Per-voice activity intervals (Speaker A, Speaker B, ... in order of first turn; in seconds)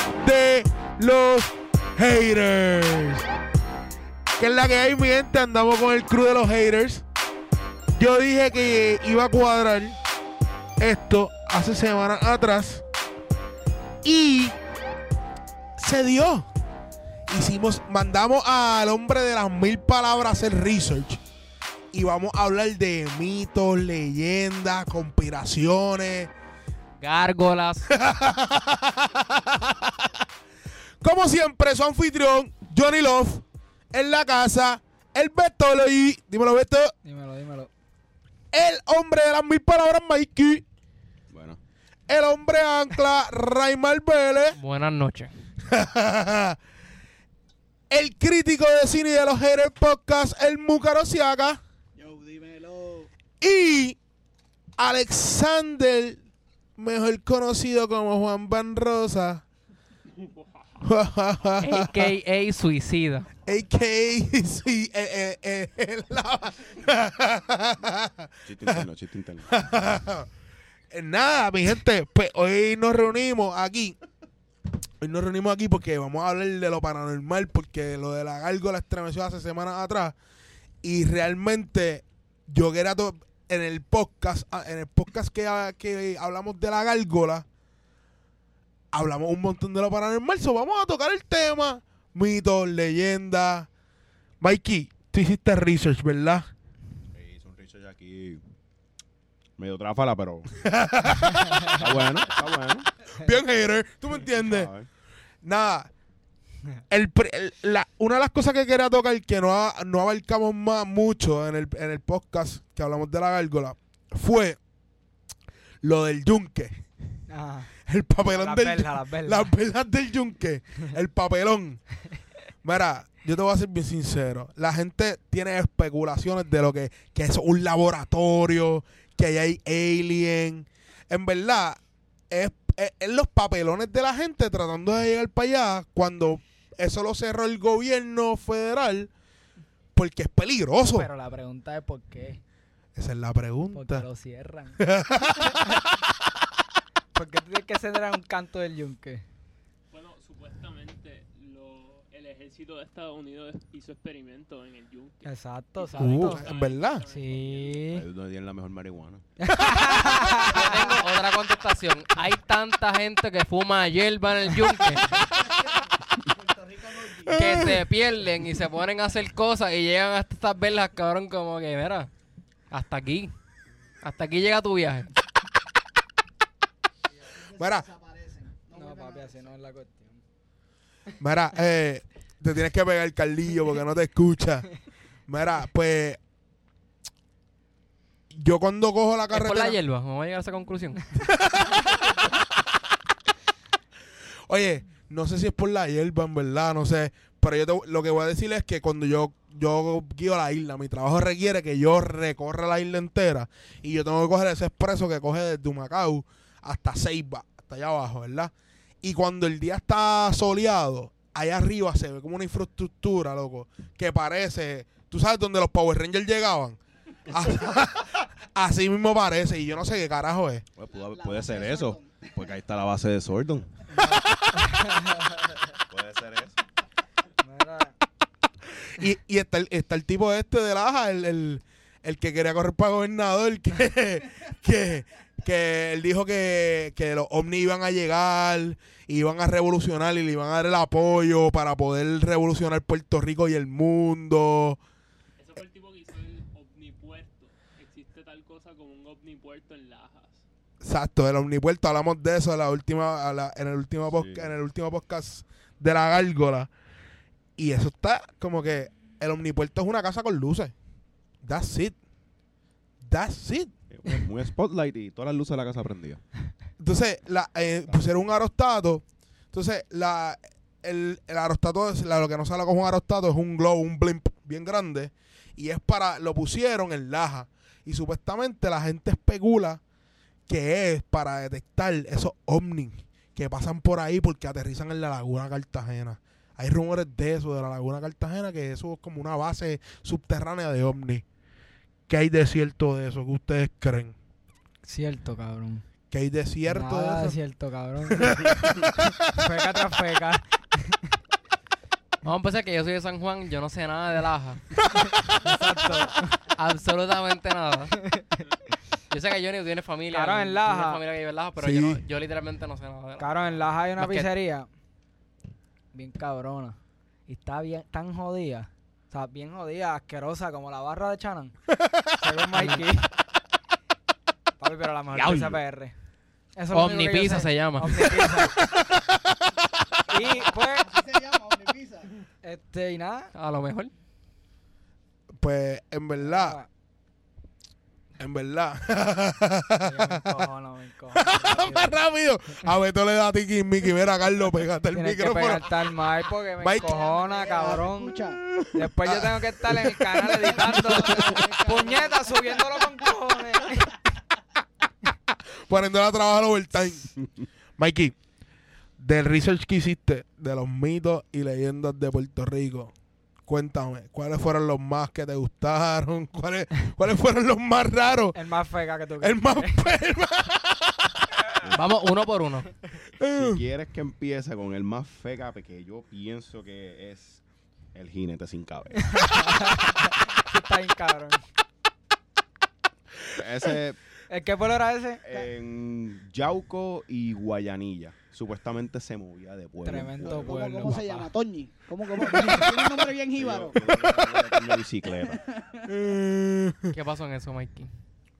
Speaker A: 0.2-3.3, 4.4-7.0, 8.0-10.0, 10.8-12.8, 14.0-14.6, 15.8-16.5, 17.3-21.2, 21.9-26.3, 27.9-30.1, 31.0-36.9, 38.5-40.6, 42.1-44.6, 45.6-46.6, 47.9-51.6, 53.4-54.0, 54.8-56.2, 56.8-59.4, 60.8-62.1, 63.5-68.8, 69.5-70.3, 70.9-74.0, 75.0-80.2, 80.8-87.5, 88.9-93.7, 94.4-96.5, 100.5-102.0, 103.2-104.7, 105.4-105.9, 106.9-114.6, 115.8-116.8, 117.8-121.8, 122.6-131.8, 132.3-139.1, 139.9-141.1, 142.9-144.1, 144.8-145.8, 156.0-157.0, 159.5-160.1, 167.2-167.8, 177.5-177.8, 181.2-184.7, 185.3-186.2, 188.3-189.8, 191.2-192.0, 194.5-220.7, 224.0-224.7, 228.9-244.8, 250.8-256.7, 257.6-260.7, 261.4-262.0, 263.0-263.7, 266.8-279.8, 280.5-291.2, 292.1-294.1, 296.1-297.4, 298.1-299.1, 304.9-305.4, 311.6-312.0, 321.8-322.1, 328.6-329.4, 335.4-336.6, 338.2-340.5, 341.1-346.0, 346.6-346.9, 348.5-350.4, 355.7-357.1, 357.8-358.1, 359.0-362.9, 363.5-368.4, 369.2-371.2, 373.2-373.6, 392.3-393.1, 395.9-396.9
Speaker B: 27.0-27.9, 44.6-45.3, 61.6-63.3, 160.2-165.2, 167.3-172.1, 172.7-173.3, 174.0-175.1, 189.3-191.2, 302.2-304.6, 306.5-307.9, 309.1-314.3, 322.5-322.8, 326.7-328.5, 333.3-333.9, 371.7-372.7, 396.9-397.9
Speaker C: 37.0-37.7, 117.3-117.7, 118.3-119.5, 140.9-142.4, 143.7-144.8, 145.4-145.8, 147.1-149.2, 155.2-156.4, 157.1-158.0, 159.4-160.9, 178.7-180.2, 223.9-225.3, 227.4-227.9, 294.8-295.8, 296.7-301.0, 305.4-306.3, 308.0-308.4, 310.1-311.0, 313.2-314.7, 315.9-321.5, 322.2-323.1, 324.6-325.9, 326.6-328.7, 330.1-330.9, 332.4-333.3, 336.2-336.7, 339.8-341.9, 344.9-348.2, 348.7-353.9, 368.3-369.8, 379.1-381.4, 384.3-385.5, 389.8-391.3
Speaker D: 41.3-41.6, 68.5-69.5, 97.1-98.4, 99.6-100.6, 101.7-102.9, 104.3-104.9, 157.9-159.2, 220.8-223.8, 225.9-226.6, 254.1-254.5, 263.9-266.2, 325.1-325.6, 373.4-377.4, 377.9-379.7, 383.3-384.0, 385.2-390.6, 393.3-395.4
Speaker E: 52.0-53.1, 165.1-167.7, 177.1-179.5, 220.9-222.2, 330.1-332.1, 346.7-348.4, 350.2-353.1, 390.2-394.5, 395.1-395.9
Speaker F: 60.2-60.7, 149.9-157.9, 245.4-250.4